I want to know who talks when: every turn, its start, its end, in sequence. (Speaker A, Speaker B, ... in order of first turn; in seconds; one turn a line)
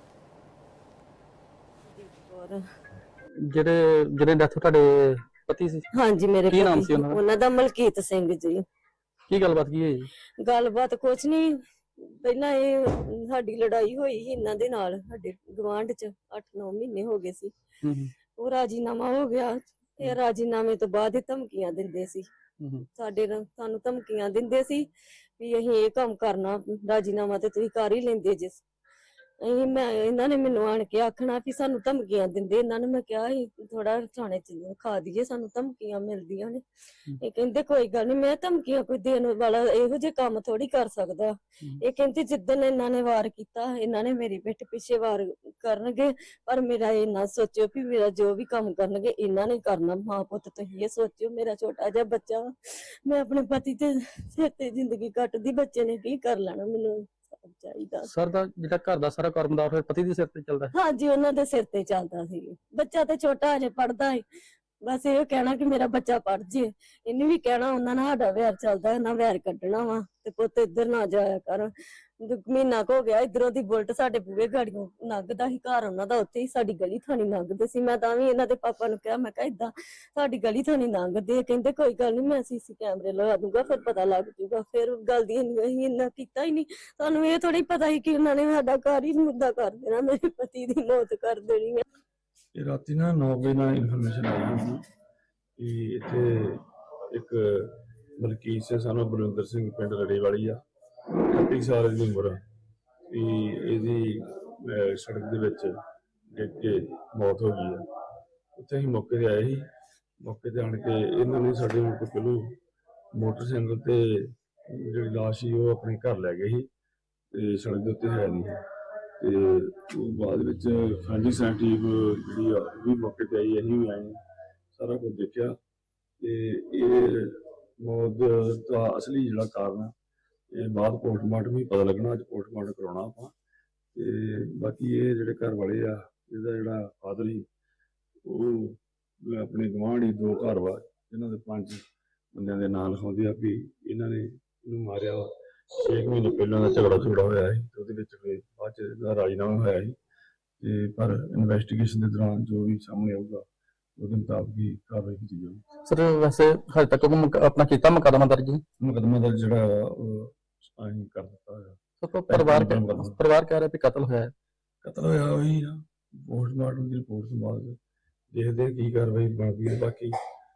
Speaker A: 1.9-2.6
Speaker B: 3.4-5.8
Speaker A: 5.9-8.6
Speaker B: 6.5-7.2
Speaker B: 9.3-10.1
Speaker A: 10.4-17.5
Speaker B: 17.8-18.1
Speaker A: 18.4-22.2
Speaker B: 22.6-22.9
Speaker A: 23.0-24.9
Speaker A: 25.4-28.6
Speaker A: 29.4-36.6
Speaker A: 37.2-58.1
Speaker B: 58.0-60.7
Speaker A: 60.7-64.2
Speaker A: 64.8-91.8
Speaker C: 92.5-94.8
Speaker C: 95.6-100.6
Speaker C: 101.3-102.4
Speaker C: 103.1-105.7
Speaker C: 106.3-107.8
Speaker C: 108.5-109.6
Speaker C: 110.2-112.5
Speaker C: 113.1-116.7
Speaker C: 117.3-118.6
Speaker C: 119.2-124.2
Speaker C: 124.7-125.5
Speaker C: 126.2-129.9
Speaker C: 130.5-133.3
Speaker C: 133.9-137.4
Speaker C: 138.2-141.8
Speaker C: 142.3-149.9
Speaker C: 150.6-153.4
Speaker C: 154.0-155.6
Speaker B: 155.8-158.6
Speaker C: 158.8-163.1
Speaker B: 162.0-164.3
Speaker C: 164.8-167.8
Speaker C: 168.3-170.1